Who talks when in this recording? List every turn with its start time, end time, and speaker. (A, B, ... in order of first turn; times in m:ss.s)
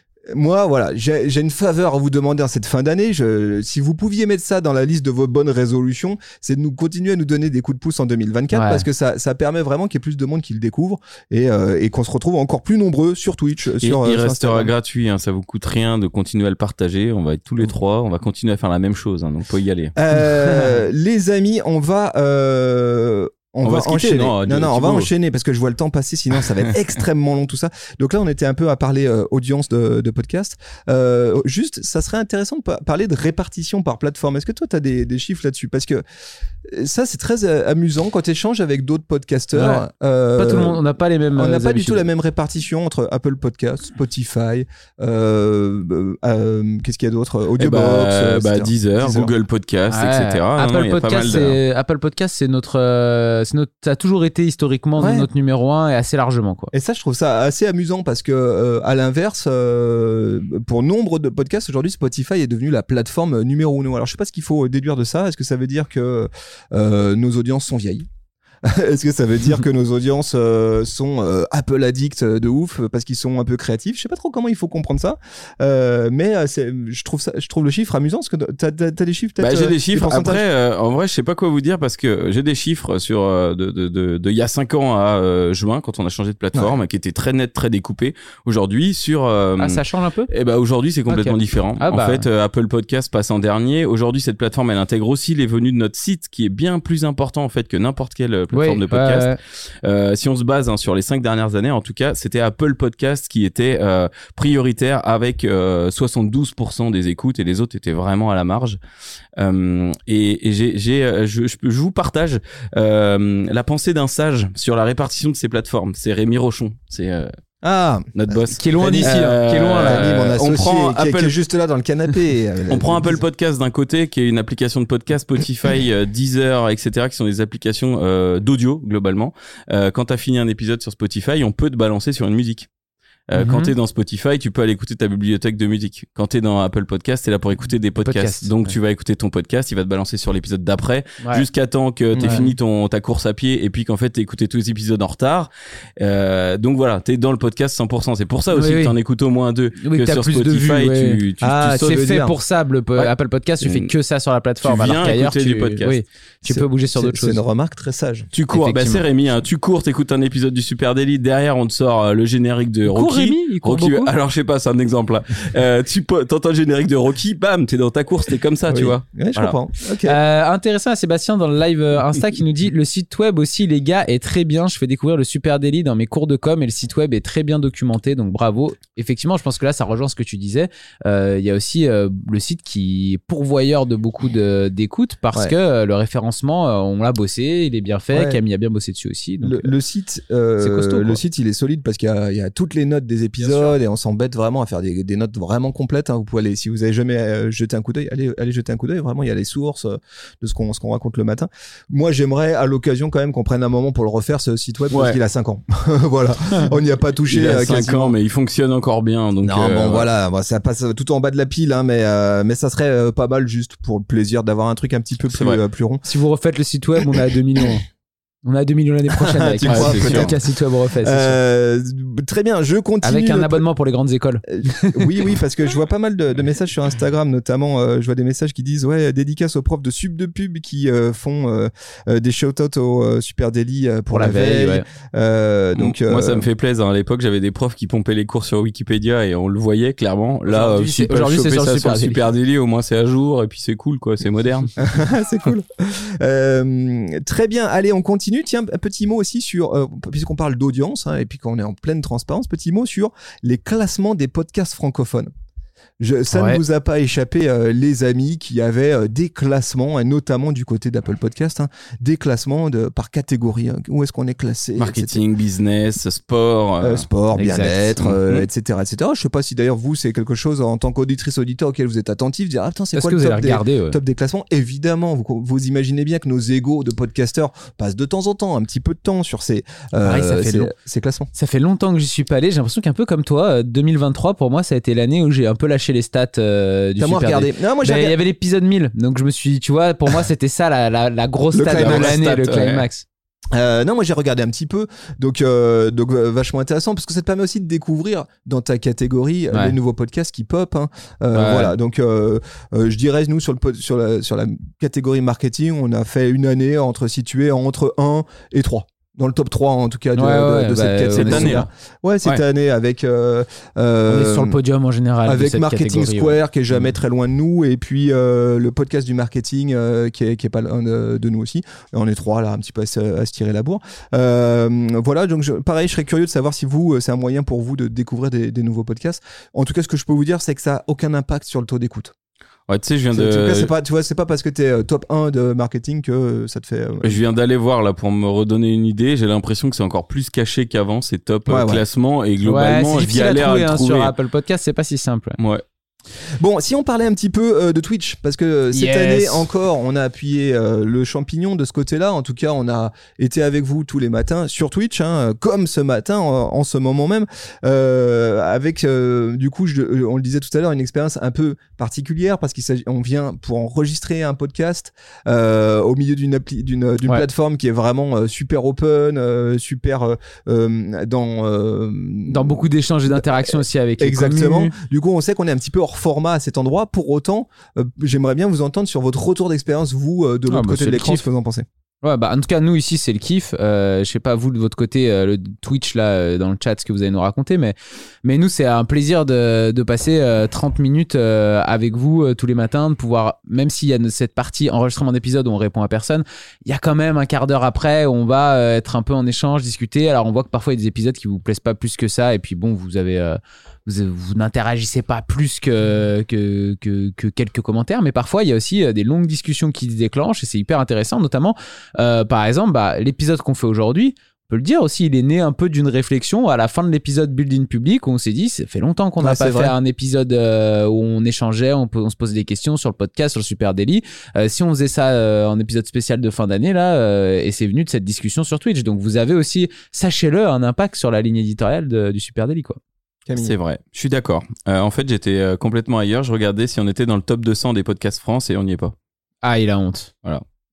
0:00.3-0:14.7 A
0:08.5-0:08.8 B
0:13.8-0:20.0 C
0:20.0-0:36.0 A
0:23.6-0:25.1 C
0:36.6-0:40.8 A
0:39.5-0:39.8 B
0:40.4-0:42.1 B
0:41.3-0:49.3 A
0:47.6-0:51.6 C
0:49.9-0:56.7 B
0:55.0-0:55.3 A
0:56.7-1:08.1 A
1:08.6-1:20.4 A
1:19.4-1:48.8 C
1:29.6-1:30.3 B
1:31.1-1:32.3 B
1:38.5-1:39.4 B
1:49.4-1:57.3 C
1:57.6-1:59.2 A
1:58.2-2:01.4 C
1:58.5-2:00.1 B
1:59.8-2:03.2 A
2:02.7-2:12.7 C
2:13.3-2:32.0 C
2:13.4-2:13.7 B
2:18.0-2:18.8 B
2:22.2-2:22.5 A
2:22.2-2:22.5 B
2:28.5-2:29.0 B
2:29.8-2:37.4 B
2:31.4-2:32.3 A
2:33.0-2:33.9 C
2:34.6-2:36.0 C
2:36.4-2:38.3 A
2:38.3-2:49.6 C
2:38.5-2:39.0 B
2:42.9-2:44.1 B
2:48.7-2:50.2 A
2:50.0-3:09.7 B
3:08.1-3:08.4 A
3:09.4-3:28.2 A
3:10.6-3:11.2 B
3:13.4-3:13.8 B
3:24.9-3:25.2 C
3:27.3-3:30.1 C
3:29.4-3:36.0 A
3:35.3-3:35.6 C
3:36.0-3:37.8 B
3:38.4-3:41.4 B
3:39.1-3:40.4 A
3:39.7-3:40.3 C
3:41.0-3:43.6 A
3:43.0-3:45.3 B
3:44.5-3:56.5 A
3:54.1-3:54.8 B
3:55.8-4:04.7 C
4:00.5-4:02.2 B
4:04.8-4:15.3 A
4:16.0-4:25.2 A
4:16.3-4:16.6 B
4:24.8-4:27.1 C
4:26.8-4:41.3 A
4:27.4-4:27.9 B
4:28.0-4:28.5 C
4:32.9-4:34.0 B
4:40.0-4:40.7 B
4:41.3-4:53.0 B
4:47.0-4:48.2 A
4:51.5-4:52.2 A
4:51.8-4:52.9 C
4:53.5-5:14.6 A
5:01.3-5:01.7 B
5:10.2-5:11.6 B
5:11.1-5:11.7 C
5:14.1-5:16.4 B
5:15.2-5:32.1 A
5:32.7-5:33.7 C
5:33.1-5:37.2 A
5:37.0-5:44.1 C
5:41.5-5:41.8 A
5:42.4-5:45.4 B
5:45.4-5:45.6 C
5:46.4-6:21.7 A
5:48.7-5:49.5 B
6:12.3-6:14.8 B
6:20.5-6:21.2 B
6:22.0-7:12.8 B
6:59.2-6:59.8 A
7:13.3-7:13.6 A
7:13.4-7:18.9 C
7:19.4-7:20.1 B